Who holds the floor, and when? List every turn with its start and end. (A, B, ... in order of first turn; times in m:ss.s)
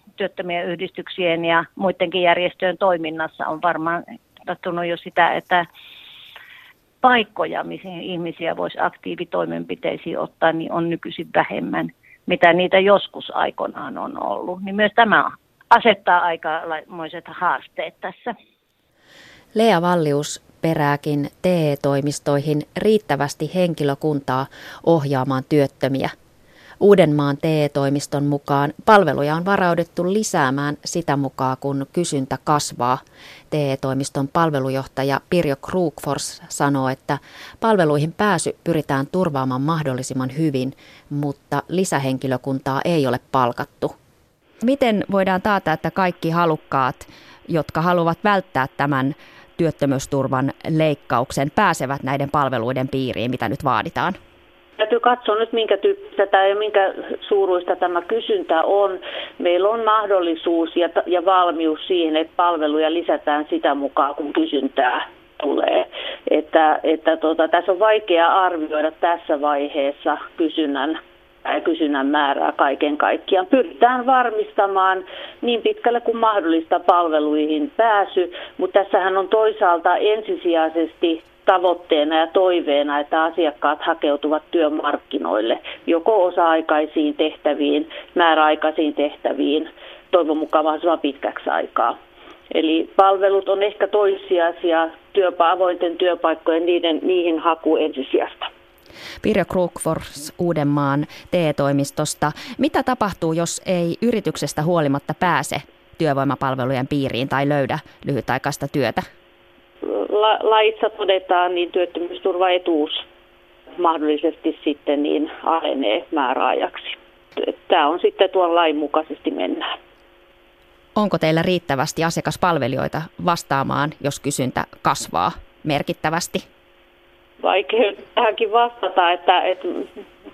0:00.2-0:05.6 A
0:07.0-0:18.3 A
0:19.5-0:26.1 B
0:26.8-0:43.9 B
0:44.6-0:54.2 B
0:54.8-1:32.0 C
1:32.5-1:38.5 C
1:39.2-1:49.0 B
1:49.8-1:53.0 C
1:53.8-1:59.7 C
2:01.0-2:06.4 B
2:07.4-2:09.9 C